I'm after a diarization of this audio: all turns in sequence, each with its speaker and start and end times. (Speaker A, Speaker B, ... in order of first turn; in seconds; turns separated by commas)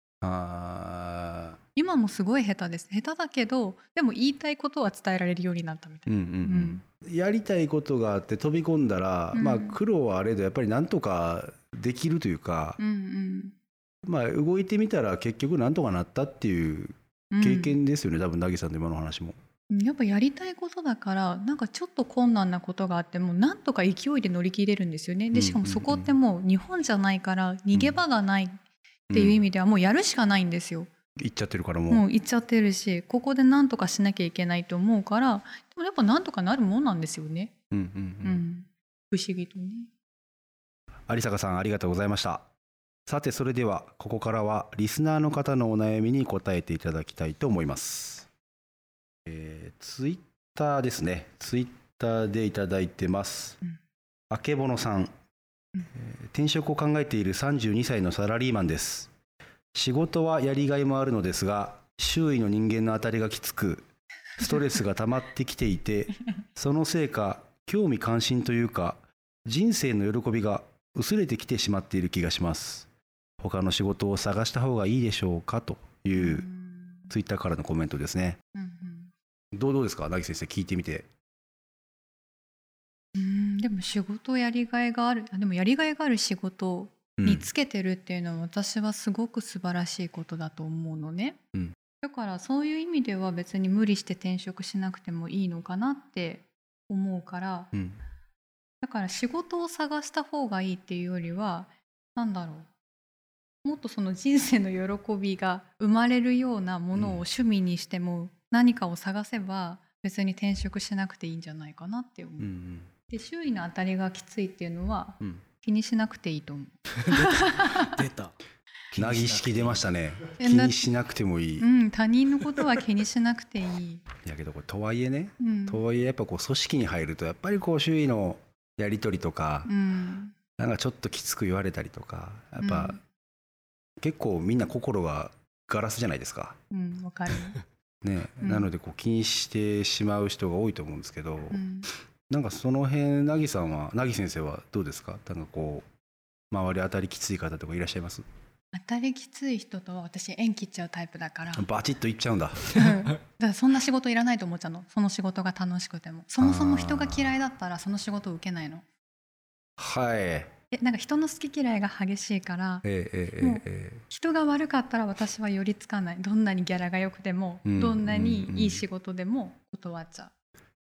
Speaker A: 0.2-1.6, Speaker B: 1.8-6.8, Speaker A: 6.1-12.8, Speaker B: 9.3-9.8, Speaker B: 12.8-13.5, Speaker A: 14.1-19.4, Speaker B: 17.3-17.8, Speaker B: 19.7-28.6, Speaker A: 25.3-26.1, Speaker A: 27.7-28.0, Speaker A: 29.1-29.4, Speaker B: 29.1-30.9, Speaker A: 31.1-32.0, Speaker B: 31.9-37.5, Speaker A: 37.7-38.4, Speaker B: 38.2-39.9, Speaker A: 41.1-42.4, Speaker A: 43.1-48.3, Speaker A: 49.2-53.6, Speaker A: 54.3-55.1, Speaker A: 55.9-59.1, Speaker A: 59.7-63.8, Speaker A: 64.4-72.9, Speaker A: 73.4-76.5, Speaker B: 76.1-77.1, Speaker A: 77.1-78.4, Speaker B: 78.5-79.1, Speaker A: 79.5-81.1, Speaker B: 83.1-91.4, Speaker A: 87.2-87.5, Speaker B: 92.0-97.7, Speaker B: 98.8-102.7, Speaker B: 103.6-112.5, Speaker A: 106.9-107.2, Speaker A: 112.4-112.9, Speaker B: 113.1-117.9, Speaker C: 117.0-118.4, Speaker C: 118.9-119.9, Speaker A: 119.0-121.7, Speaker B: 120.4-120.8, Speaker B: 121.6-124.0, Speaker A: 124.2-129.7, Speaker B: 125.4-125.8, Speaker B: 129.7-130.3, Speaker A: 130.6-133.0, Speaker B: 132.6-133.0, Speaker A: 134.0-136.6, Speaker B: 136.7-137.6, Speaker A: 138.0-141.6, Speaker B: 138.4-138.7, Speaker B: 141.5-141.9, Speaker A: 142.3-145.9, Speaker A: 146.5-148.2, Speaker B: 148.7-151.7, Speaker A: 151.5-152.8, Speaker B: 152.7-158.8, Speaker A: 156.4-157.3, Speaker A: 159.8-160.5, Speaker B: 160.7-162.8, Speaker A: 162.8-164.0, Speaker B: 163.4-170.3, Speaker A: 167.6-168.8